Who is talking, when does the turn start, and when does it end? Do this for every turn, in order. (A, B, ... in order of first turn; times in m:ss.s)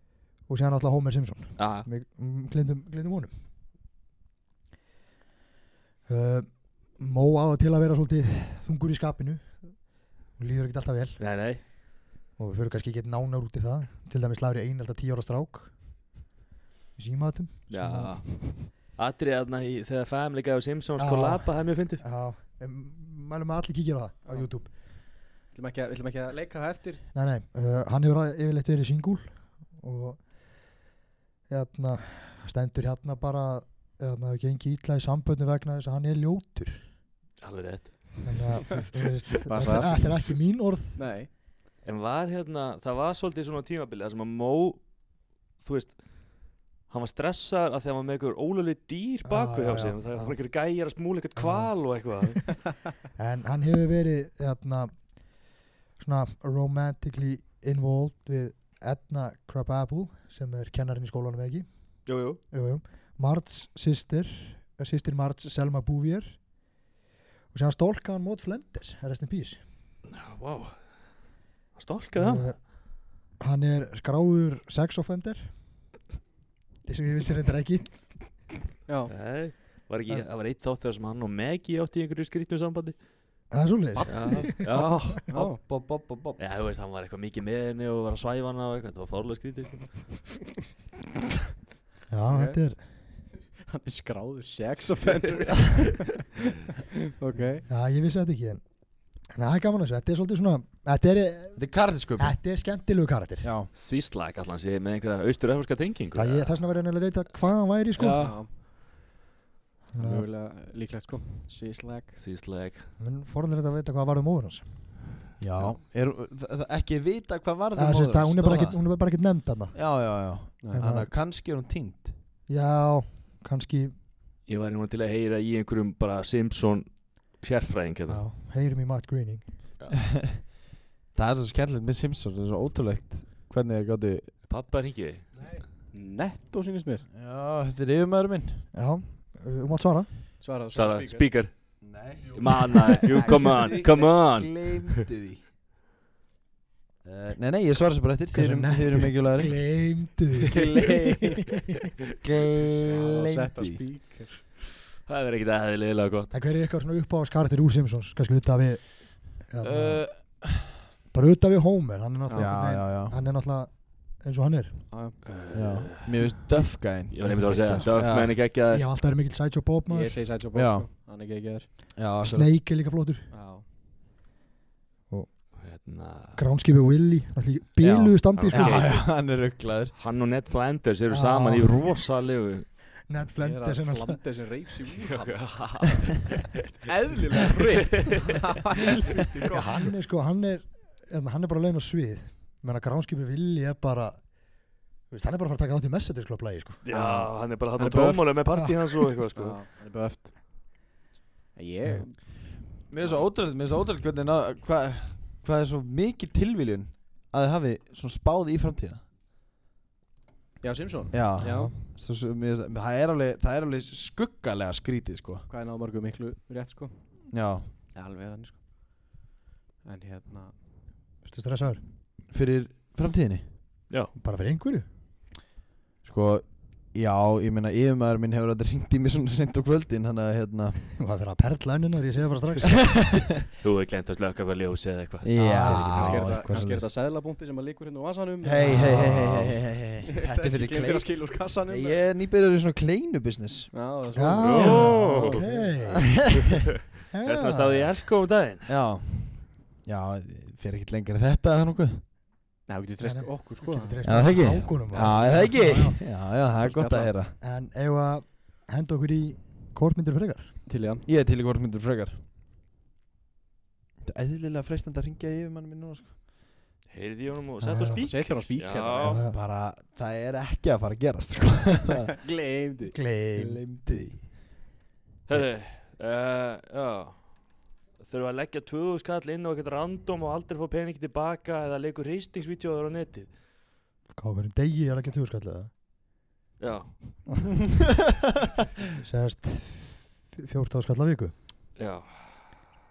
0:00.5-0:03.3 A
0:01.6-0:01.9 B
0:06.1-0:11.2 A
0:11.2-0:11.6 B
0:12.4-0:15.8 A
0:17.0-0:18.5 A
0:17.7-0:22.0 B
0:21.0-0:24.7 A
0:25.5-0:27.0 C
0:27.1-0:30.2 A
0:31.5-0:36.9 A
0:37.4-0:38.3 B
0:38.2-0:41.0 A
0:39.5-0:40.2 C
0:41.0-0:41.3 C
0:41.8-0:44.9 B
0:45.6-0:52.5 B
0:49.2-0:50.4 A
0:51.4-0:52.1 A
0:53.2-0:55.4 A
0:56.0-1:06.4 A
1:02.1-1:02.4 B
1:07.5-1:09.6 A
1:10.1-1:10.8 B
1:11.8-1:12.5 B
1:12.2-1:15.5 A
1:16.8-1:18.1 A
1:18.9-1:19.1 C
1:19.1-1:23.0 B
1:23.5-1:24.5 A
1:24.0-1:25.6 C
1:24.1-1:25.2 B
1:25.3-1:26.4 D
1:26.4-1:30.2 B
1:32.1-1:32.8 A
1:32.3-1:32.6 C
1:33.7-1:36.2 C
1:37.2-1:37.7 C
1:37.7-1:38.7 A
1:39.3-1:43.5 A
1:41.6-1:42.4 D
1:43.4-1:43.7 D
1:43.7-1:46.6 B
1:46.2-1:48.4 A
1:48.0-1:48.5 B
1:48.2-1:48.5 C
1:49.9-1:50.3 A
1:50.0-1:52.2 C
1:52.2-1:52.9 B
1:53.0-1:54.7 A
1:55.4-1:58.8 D
1:57.8-1:59.8 A
1:59.7-2:02.2 D
2:00.6-2:00.9 C
2:00.7-2:01.1 A
2:02.5-2:04.0 A
2:04.5-2:08.2 B
2:08.1-2:09.5 A
2:09.9-2:10.4 D
2:11.2-2:14.4 D
2:14.4-2:15.4 B
2:15.4-2:17.1 C
2:17.1-2:18.7 D
2:18.7-2:20.1 A
2:20.4-2:21.3 C
2:20.7-2:25.0 B
2:21.8-2:25.4 D
2:23.1-2:24.1 C
2:27.0-2:29.6 D
2:28.3-2:30.6 A
2:30.5-2:31.4 C
2:32.2-2:33.8 D
2:32.7-2:34.4 C
2:35.0-2:36.3 B
2:36.3-2:40.4 A
2:39.6-2:40.8 D
2:41.1-2:44.8 A
2:42.3-2:42.6 C
2:42.3-2:43.2 D
2:44.9-2:45.2 C
2:45.2-2:46.4 B
2:45.5-2:48.4 D
2:47.1-2:48.9 B
2:47.2-2:50.2 A
2:49.9-2:51.7 C
2:50.5-2:50.9 D
2:52.0-2:52.5 D
2:52.2-2:53.3 A
2:53.3-2:53.6 C
2:55.1-2:55.6 A
2:55.6-2:56.4 B
2:56.3-2:59.0 A
2:57.8-3:00.0 D
2:58.3-2:59.2 B
2:59.9-3:02.7 B
3:01.1-3:02.0 A
3:03.1-3:04.2 A
3:03.4-3:05.9 C
3:05.0-3:06.9 B
3:06.8-3:09.9 C
3:07.6-3:08.2 B
3:09.5-3:14.3 A
3:15.1-3:16.8 A
3:16.8-3:19.6 B
3:16.9-3:18.6 C
3:19.4-3:20.4 C
3:21.6-3:22.3 C
3:22.9-3:29.0 D
3:30.6-3:31.7 C
3:31.1-3:35.5 D
3:31.4-3:31.8 A
3:35.5-3:37.2 C
3:37.3-3:37.7 D
3:37.9-3:38.6 C
3:39.8-3:40.6 C
3:41.2-3:41.8 A
3:42.3-3:43.5 D
3:44.2-3:44.9 A
3:46.0-3:50.8 D
3:50.9-3:53.0 A
3:52.7-3:53.2 D
3:53.6-3:56.2 B
3:55.2-3:56.8 D
3:55.4-3:56.2 A
3:55.5-4:02.1 C
3:58.4-4:03.8 D
3:58.6-3:59.3 A
4:03.7-4:05.8 C
4:04.1-4:06.0 A
4:04.4-4:05.4 B
4:06.0-4:06.7 D
4:07.1-4:07.9 A
4:07.1-4:08.7 B
4:08.7-4:12.0 D
4:12.7-4:15.5 C
4:13.0-4:16.0 A
4:14.0-4:17.4 D
4:16.6-4:17.1 C
4:17.4-4:20.6 A
4:20.7-4:21.1 C
4:21.0-4:22.2 D
4:24.0-4:26.1 D
4:26.9-4:29.2 B
4:27.6-4:28.1 A
4:28.0-4:29.2 C
4:29.0-4:29.4 A
4:29.3-4:32.2 D
4:32.2-4:33.0 C
4:32.9-4:33.6 A
4:33.3-4:34.3 D
4:35.3-4:37.4 B
4:38.0-4:43.3 B
4:44.1-4:45.7 A
4:46.6-4:47.2 B
4:49.0-4:51.3 A
4:51.8-4:52.6 B